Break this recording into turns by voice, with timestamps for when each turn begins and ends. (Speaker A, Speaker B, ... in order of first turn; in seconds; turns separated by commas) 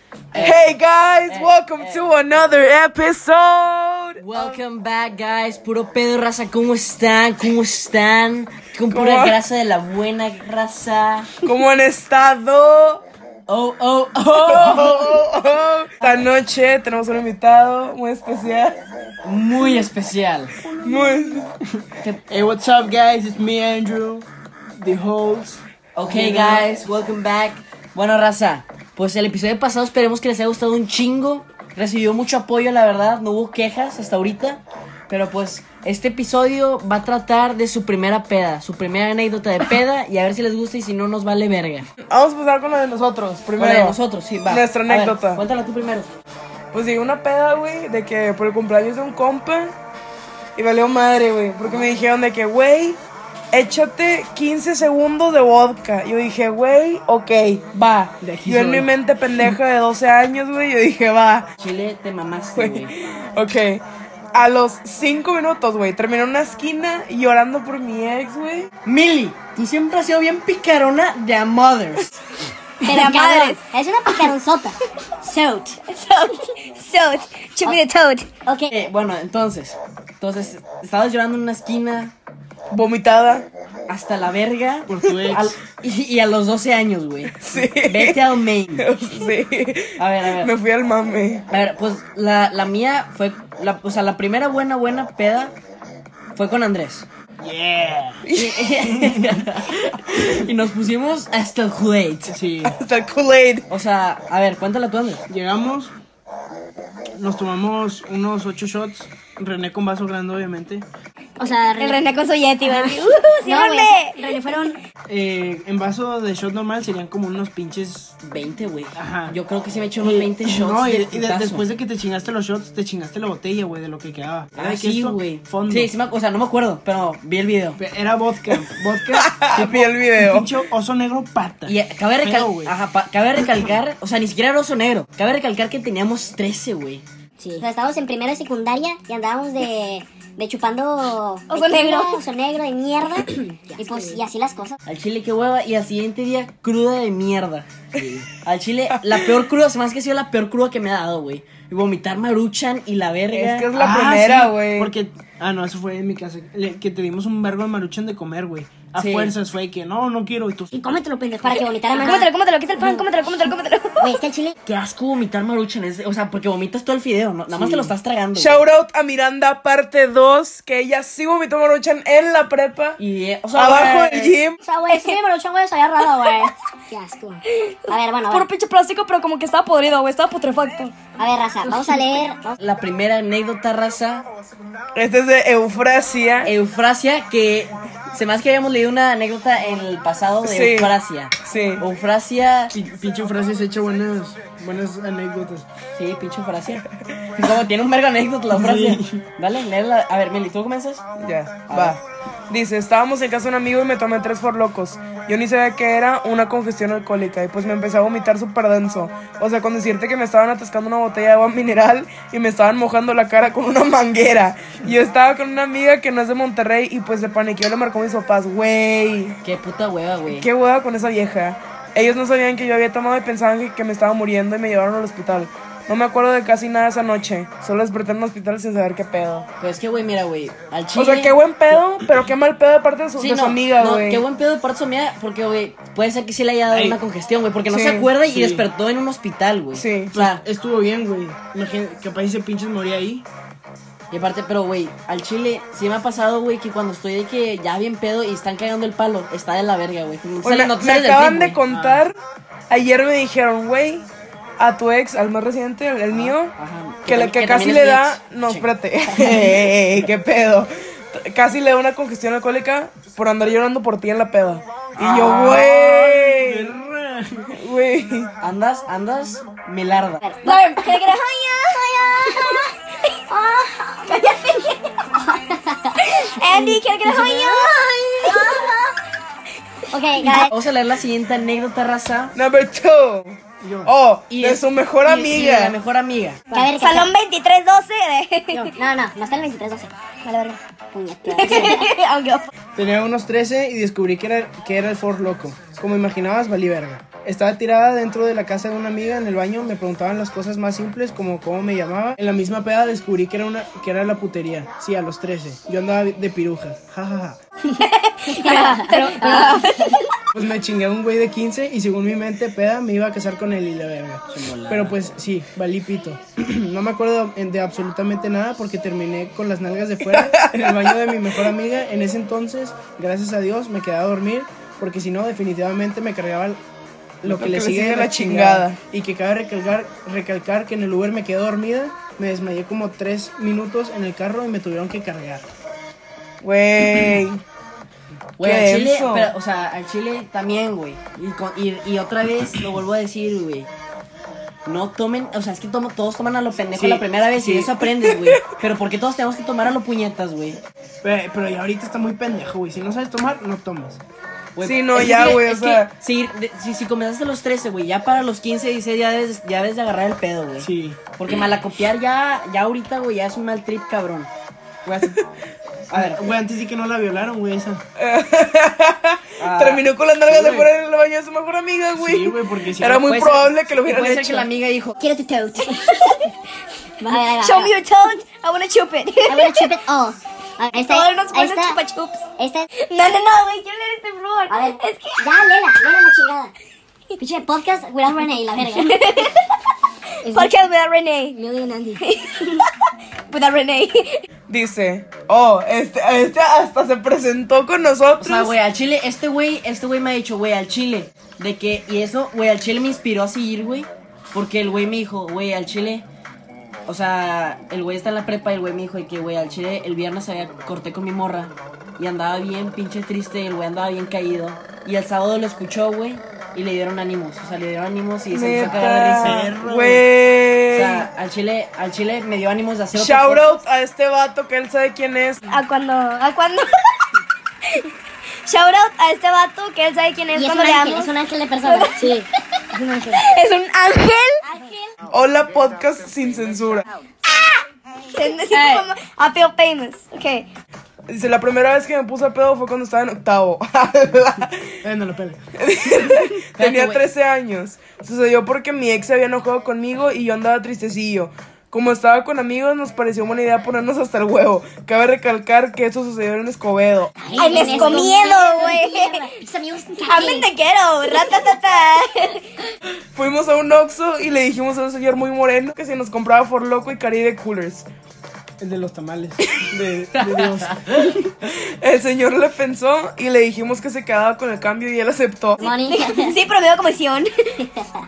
Speaker A: 0.3-0.7, Speaker B: 0.3-4.6, Speaker A: 1.3-2.5, Speaker A: 4.2-11.3, Speaker B: 8.9-9.4, Speaker B: 11.4-13.0, Speaker A: 13.5-15.2, Speaker B: 14.4-18.8, Speaker A: 19.2-20.5, Speaker B: 20.8-21.5, Speaker C: 20.8-21.2, Speaker C: 21.8-26.7, Speaker A: 25.9-41.9, Speaker B: 42.1-45.4, Speaker A: 43.6-46.1, Speaker B: 46.7-49.7, Speaker B: 50.5-53.0, Speaker A: 51.6-51.9, Speaker B: 53.5-61.5, Speaker C: 58.2-58.9, Speaker A: 61.6-62.9, Speaker B: 62.5-63.8, Speaker B: 64.3-68.7, Speaker A: 68.8-72.2, Speaker D: 72.8-75.8, Speaker E: 72.8-73.6, Speaker E: 75.9-78.3, Speaker D: 78.5-78.7, Speaker A: 78.7-82.1, Speaker B: 82.7-83.5, Speaker A: 83.9-88.9, Speaker C: 84.9-85.5, Speaker B: 87.4-91.4, Speaker A: 90.0-90.5, Speaker A: 91.5-95.5, Speaker A: 96.3-97.1, Speaker C: 97.4-98.2, Speaker B: 98.2-98.9, Speaker A: 98.3-102.3, Speaker C: 102.3-102.8, Speaker B: 102.6-103.7, Speaker A: 103.7-105.2, Speaker C: 105.3-105.9, Speaker C: 107.1-110.8, Speaker D: 111.4-114.8, Speaker E: 111.8-114.2, Speaker C: 115.1-118.2, Speaker A: 118.2-121.7, Speaker C: 118.9-119.4, Speaker C: 120.0-125.9, Speaker A: 124.5-127.8, Speaker C: 127.8-132.7, Speaker B: 129.1-130.5, Speaker A: 131.7-137.0, Speaker D: 137.6-144.8, Speaker E: 141.5-142.2, Speaker A: 144.8-153.7, Speaker B: 148.9-149.3, Speaker B: 153.3-154.9, Speaker C: 153.7-160.7, Speaker A: 158.9-159.3, Speaker D: 161.3-163.0, Speaker E: 161.4-164.2, Speaker D: 164.0-164.5, Speaker A: 164.7-168.6, Speaker B: 167.6-173.0, Speaker A: 173.0-174.3, Speaker B: 173.5-174.6, Speaker D: 174.6-178.5, Speaker E: 177.5-180.9, Speaker D: 181.2-182.6, Speaker A: 182.6-184.2, Speaker B: 184.9-186.5, Speaker A: 186.4-192.7, Speaker B: 190.4-191.8, Speaker C: 192.7-195.7, Speaker A: 195.9-196.8, Speaker A: 197.3-201.0, Speaker C: 198.5-199.2, Speaker B: 201.2-219.4, Speaker A: 201.7-202.0, Speaker A: 219.4-220.5, Speaker B: 220.3-229.5, Speaker A: 229.6-231.3, Speaker B: 230.9-234.2, Speaker A: 233.2-240.4, Speaker C: 236.7-237.0, Speaker B: 237.7-238.1, Speaker C: 238.3-238.7, Speaker B: 239.7-240.2, Speaker C: 240.1-243.2, Speaker A: 244.1-251.6, Speaker B: 250.4-252.2, Speaker C: 251.7-252.0, Speaker B: 252.7-256.5, Speaker A: 256.1-258.7, Speaker B: 257.1-266.7, Speaker A: 264.9-265.6, Speaker C: 265.1-267.5, Speaker B: 267.5-268.3, Speaker A: 268.4-270.2, Speaker D: 270.2-270.6, Speaker E: 270.4-275.2, Speaker D: 273.6-274.0, Speaker D: 275.2-276.0, Speaker E: 276.0-278.7, Speaker D: 276.5-277.6, Speaker D: 278.2-278.9, Speaker D: 279.9-280.5, Speaker A: 280.2-282.3, Speaker B: 282.3-285.8, Speaker C: 283.6-283.9, Speaker A: 284.3-286.4, Speaker D: 286.5-287.1, Speaker E: 286.5-288.7, Speaker D: 288.7-289.9, Speaker E: 290.2-290.6, Speaker D: 290.9-291.9, Speaker E: 291.3-292.5, Speaker C: 292.8-307.4, Speaker E: 307.7-310.1, Speaker D: 308.3-309.7, Speaker C: 310.3-326.6, Speaker A: 314.3-315.0, Speaker B: 320.1-321.0, Speaker C: 327.2-335.4, Speaker B: 327.2-328.8, Speaker B: 336.4-337.4, Speaker A: 338.4-343.7, Speaker B: 338.4-339.3, Speaker A: 344.6-350.6, Speaker C: 346.7-347.7, Speaker B: 348.0-348.4, Speaker C: 351.0-354.0, Speaker A: 354.6-364.3, Speaker B: 354.6-355.9, Speaker C: 360.6-361.0, Speaker A: 365.9-366.3, Speaker C: 365.9-367.8, Speaker B: 368.0-374.5, Speaker A: 369.4-369.9, Speaker C: 370.3-370.7, Speaker C: 371.9-373.1, Speaker A: 373.0-375.0, Speaker D: 375.0-376.1, Speaker E: 377.0-379.7, Speaker D: 377.1-377.7, Speaker D: 379.3-381.8, Speaker E: 380.8-382.2, Speaker D: 382.4-382.7, Speaker E: 382.8-385.6, Speaker D: 384.5-386.5, Speaker D: 387.2-389.3, Speaker E: 388.8-389.4, Speaker E: 390.2-391.4, Speaker D: 390.2-390.5, Speaker D: 391.4-392.0, Speaker E: 392.0-392.6, Speaker E: 393.3-394.2, Speaker B: 394.5-398.5, Speaker A: 398.2-406.1, Speaker A: 406.9-419.6, Speaker B: 418.3-421.1, Speaker C: 418.6-420.1, Speaker A: 420.7-423.5, Speaker B: 422.9-425.4, Speaker E: 425.5-427.9, Speaker E: 428.4-431.1, Speaker D: 430.3-432.2, Speaker E: 431.6-432.2, Speaker E: 433.1-434.4, Speaker B: 435.1-436.9, Speaker E: 438.1-440.5, Speaker D: 438.5-438.8, Speaker B: 441.1-444.8, Speaker C: 444.8-445.4, Speaker B: 445.6-458.1, Speaker A: 446.5-447.1, Speaker D: 457.2-460.5, Speaker E: 457.3-459.2, Speaker E: 460.1-462.4, Speaker B: 463.1-467.9, Speaker C: 468.6-471.2, Speaker A: 470.4-471.0, Speaker B: 471.4-475.6, Speaker D: 475.6-476.4, Speaker E: 475.6-477.3